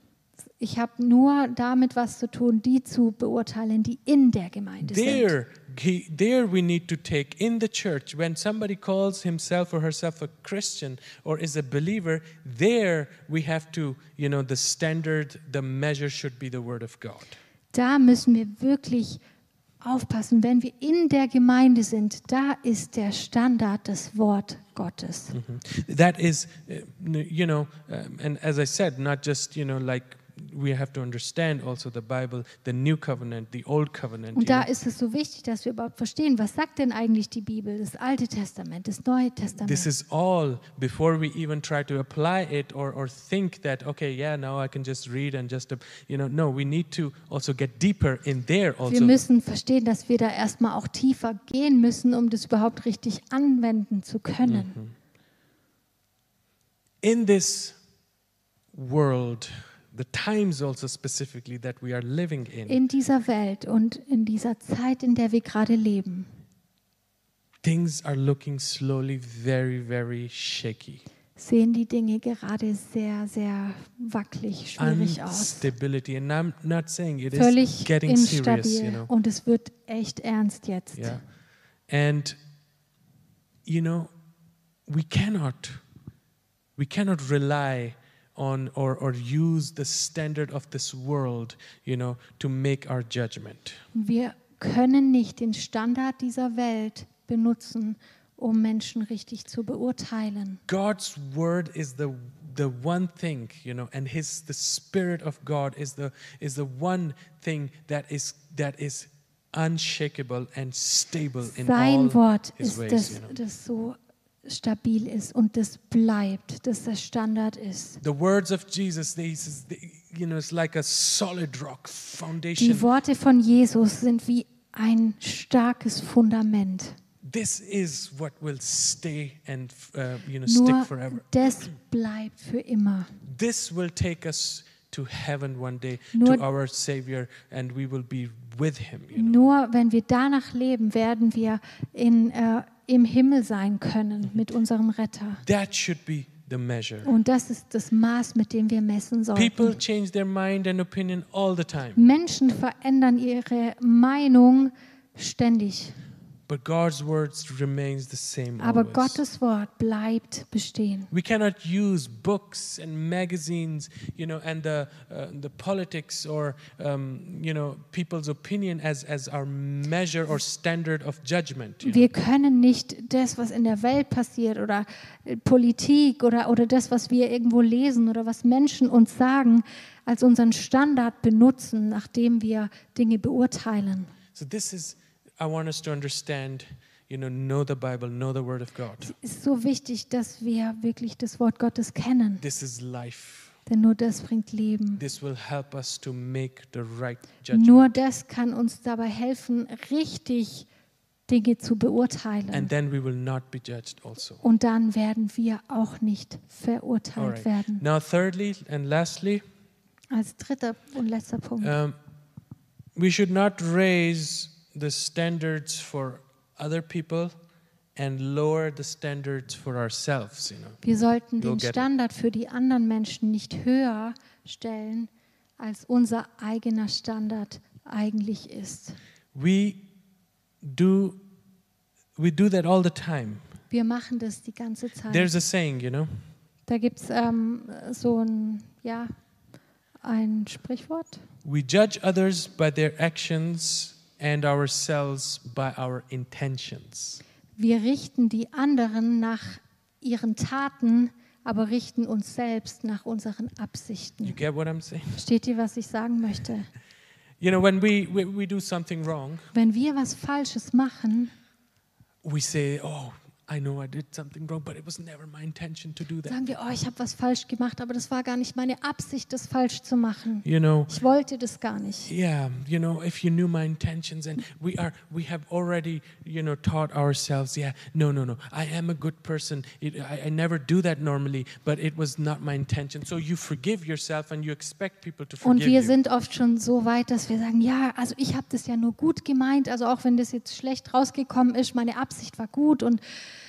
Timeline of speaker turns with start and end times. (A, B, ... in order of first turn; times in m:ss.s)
0:00.6-0:05.3 A
0:04.8-0:17.4 B
0:17.7-0:19.2 A
0:19.8-0:25.4 A
0:25.3-0:34.7 B
0:34.4-0:39.9 A
0:39.6-0:49.2 B
0:48.9-0:54.8 A
0:54.4-0:54.9 B
0:57.0-0:57.8 B
0:58.7-1:02.8 B
1:02.7-1:06.3 A
1:07.6-1:11.0 B
1:11.4-1:15.7 A
1:14.8-1:19.1 B
1:17.3-1:21.2 A
1:21.0-1:21.2 B
1:21.9-1:22.4 B
1:23.7-1:24.1 B
1:24.9-1:25.8 B
1:26.8-1:33.8 B
1:33.9-1:40.6 A
1:40.7-1:53.4 B
1:51.5-1:58.0 A
1:58.0-2:02.9 B
2:02.6-2:07.0 A
2:07.3-2:11.3 B
2:10.5-2:13.1 A
2:13.3-2:19.4 B
2:16.1-2:16.4 A
2:19.1-2:25.4 A
2:25.4-2:27.1 B
2:27.0-2:29.8 A
2:29.4-2:32.0 B
2:32.0-2:36.0 A
2:36.5-2:39.2 B
2:38.6-2:41.1 A
2:41.1-2:52.1 B
2:51.8-3:04.1 A
3:04.3-3:09.1 B
3:09.0-3:12.4 A
3:12.4-3:13.6 B
3:13.7-3:15.0 A
3:15.0-3:18.0 B
3:17.5-3:20.7 A
3:21.3-3:22.7 A
3:22.5-3:24.4 B
3:24.4-3:27.8 A
3:27.2-3:29.4 B
3:30.1-3:31.8 A
3:31.6-3:32.0 B
3:33.0-3:37.4 B
3:38.0-3:40.8 B
3:40.8-3:49.0 A
3:41.4-3:41.9 B
3:49.3-3:49.9 B
3:50.6-3:51.2 B
3:52.2-3:53.5 B
3:53.7-3:55.3 A
3:55.1-3:56.2 B
3:56.7-3:59.1 A
4:00.0-4:01.2 A
4:01.4-4:07.2 B
4:07.6-4:14.4 A
4:14.2-4:15.2 B
4:15.2-4:16.7 A
4:17.4-4:19.5 B
4:19.5-4:21.3 A
4:22.2-4:26.4 B
4:26.3-4:32.1 A
4:30.4-4:31.0 B
4:32.1-4:46.0 B
4:45.4-4:53.0 A